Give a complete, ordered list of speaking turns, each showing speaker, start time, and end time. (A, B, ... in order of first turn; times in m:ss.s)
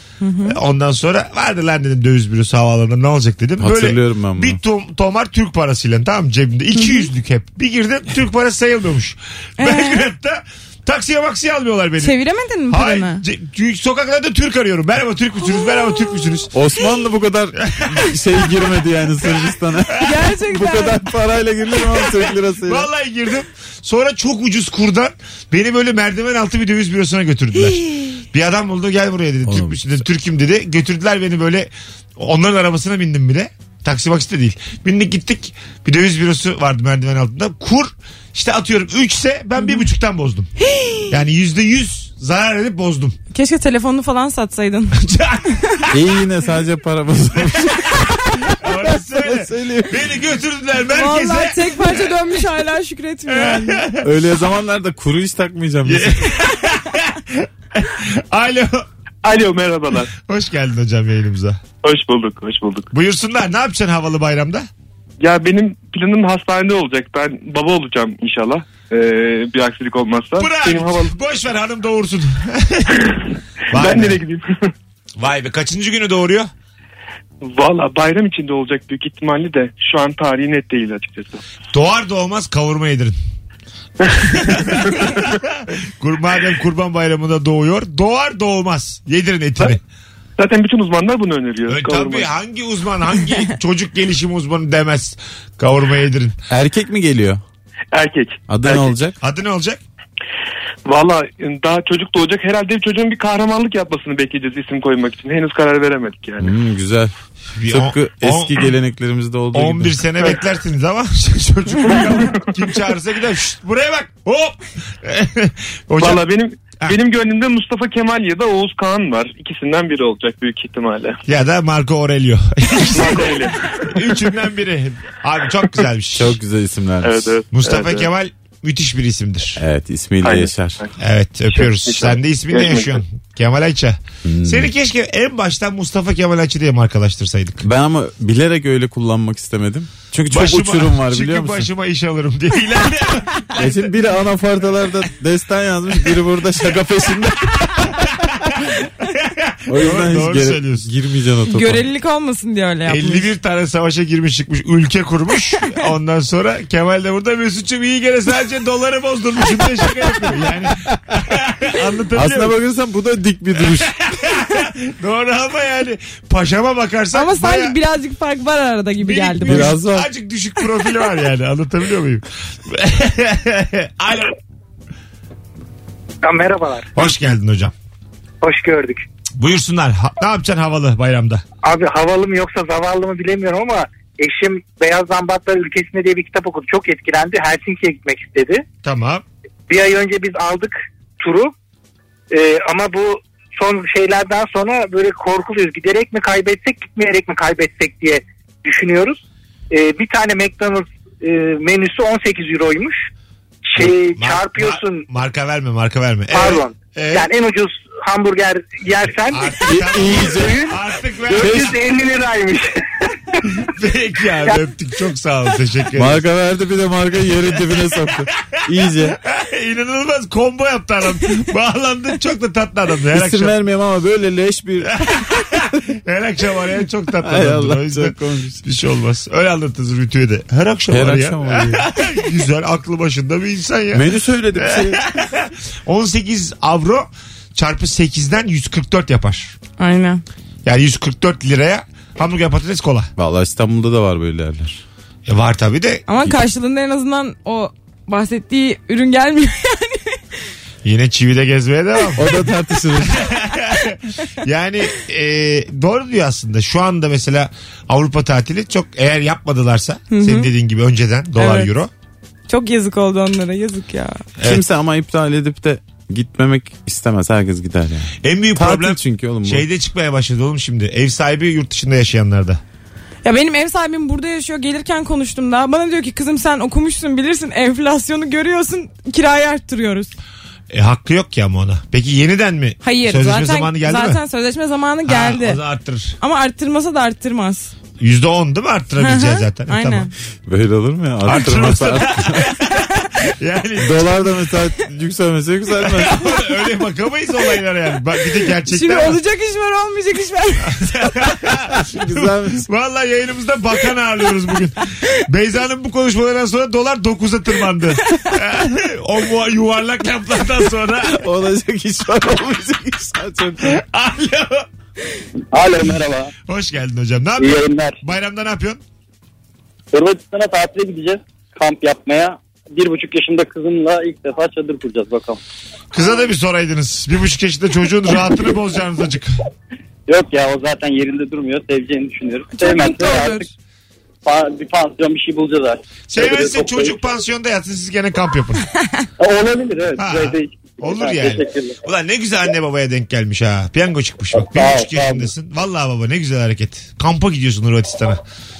0:00.2-0:00.6 A
0:00.4-0:12.2 B
0:03.6-0:04.6 C
0:06.8-0:07.0 A
0:09.6-0:10.0 A
0:12.0-0:13.2 A
0:12.7-0:16.5 B
0:16.5-0:22.9 C
0:17.7-0:18.1 B
0:20.0-0:21.0 A
0:22.6-0:27.8 B
0:27.6-0:28.2 A
0:28.3-0:40.5 B
0:29.4-0:29.8 C
0:40.6-0:41.2 A
0:41.1-0:43.2 B
0:43.3-0:45.0 A
0:45.0-0:45.9 B
0:45.9-0:50.1 C
0:47.9-0:51.9 B
0:50.9-0:53.8 A
0:53.3-0:54.1 B
0:54.0-0:56.2 C
0:55.8-0:58.8 B
0:59.2-1:00.1 D
1:00.2-1:01.6 B
1:01.8-1:02.9 D
1:02.9-1:04.7 B
1:05.2-1:11.2 D
1:10.4-1:13.1 B
1:13.7-1:14.2 B
1:13.7-1:14.7 D
1:15.2-1:16.5 B
1:17.4-1:21.4 D
1:21.7-1:23.1 B
1:24.0-1:25.1 D
1:24.1-1:29.8 B
1:30.4-1:32.3 D
1:31.7-1:36.4 B
1:36.5-1:37.4 C
1:37.9-1:38.9 D
1:38.5-1:39.2 C
1:39.2-1:39.8 B
1:40.8-1:46.5 D
1:46.4-1:47.1 C
1:47.6-1:48.7 B
1:47.7-1:50.1 C
1:49.5-1:56.2 B
1:51.8-1:52.5 D
1:56.0-2:01.2 D
2:01.3-2:06.4 B
2:02.8-2:04.1 D
2:06.1-2:07.4 C
2:07.0-2:08.1 D
2:07.5-2:09.6 B
2:09.6-2:10.8 C
2:10.2-2:10.9 D
2:11.0-2:17.6 B
2:11.5-2:13.0 D
2:14.2-2:14.7 C
2:17.6-2:21.7 C
2:20.3-2:23.9 B
2:23.6-2:28.1 C
2:27.8-2:30.9 B
2:29.7-2:31.9 C
2:31.4-2:33.3 A
2:32.9-2:42.5 B
2:42.1-2:43.9 C
2:43.7-2:47.8 B
2:47.1-2:49.8 A
2:49.0-2:54.3 B
2:49.4-2:50.1 C
2:56.2-2:56.9 E
2:57.0-2:57.7 B
2:58.4-2:59.0 E
2:59.4-3:01.4 B
3:01.6-3:08.6 E
3:08.8-3:09.2 B
3:09.7-3:11.5 E
3:12.3-3:23.0 E
3:23.7-3:25.1 E
3:23.8-3:27.3 B
3:26.3-3:30.8 E
3:29.3-3:31.8 B
3:29.6-3:30.8 C
3:31.3-3:32.7 E
3:31.3-3:31.8 C
3:33.6-3:36.2 B
3:35.9-3:39.2 C
3:39.1-3:43.5 B
3:43.1-3:45.6 C
3:44.9-3:59.5 B
3:47.2-3:48.6 C
3:50.9-3:51.9 C
3:53.9-3:55.1 C
3:59.8-4:00.2 A
4:00.6-4:03.1 B
4:03.2-4:04.8 C
4:05.3-4:06.0 B
4:06.1-4:10.1 A
4:10.8-4:12.5 B
4:12.2-4:13.3 C
4:13.0-4:21.9 B
4:20.1-4:20.5 A
4:21.4-4:21.7 A
4:22.5-4:24.2 A
4:24.4-4:29.6 C
4:28.2-4:32.6 B
4:33.2-4:40.1 A
4:40.7-4:44.2 B
4:42.8-4:45.6 A
4:45.0-4:46.2 B
4:46.2-4:47.7 A
4:48.0-4:50.1 B
4:49.0-4:50.1 A
4:50.4-4:52.5 C
4:51.2-4:54.1 B
4:53.8-4:56.3 C
4:55.8-4:59.2 B
4:58.7-5:01.2 A
5:00.6-5:11.2 B
5:01.8-5:02.7 C
5:11.0-5:13.8 C
5:13.6-5:14.6 B
5:15.5-5:16.3 F
5:16.5-5:18.8 B
5:17.4-5:18.0 F
5:19.9-5:25.4 F
5:25.9-5:29.4 B
5:30.1-5:33.5 F
5:32.5-5:33.5 A
5:34.2-5:37.0 F
5:36.1-5:38.6 B
5:39.2-5:41.8 F
5:40.0-5:48.2 B
5:44.3-5:45.3 F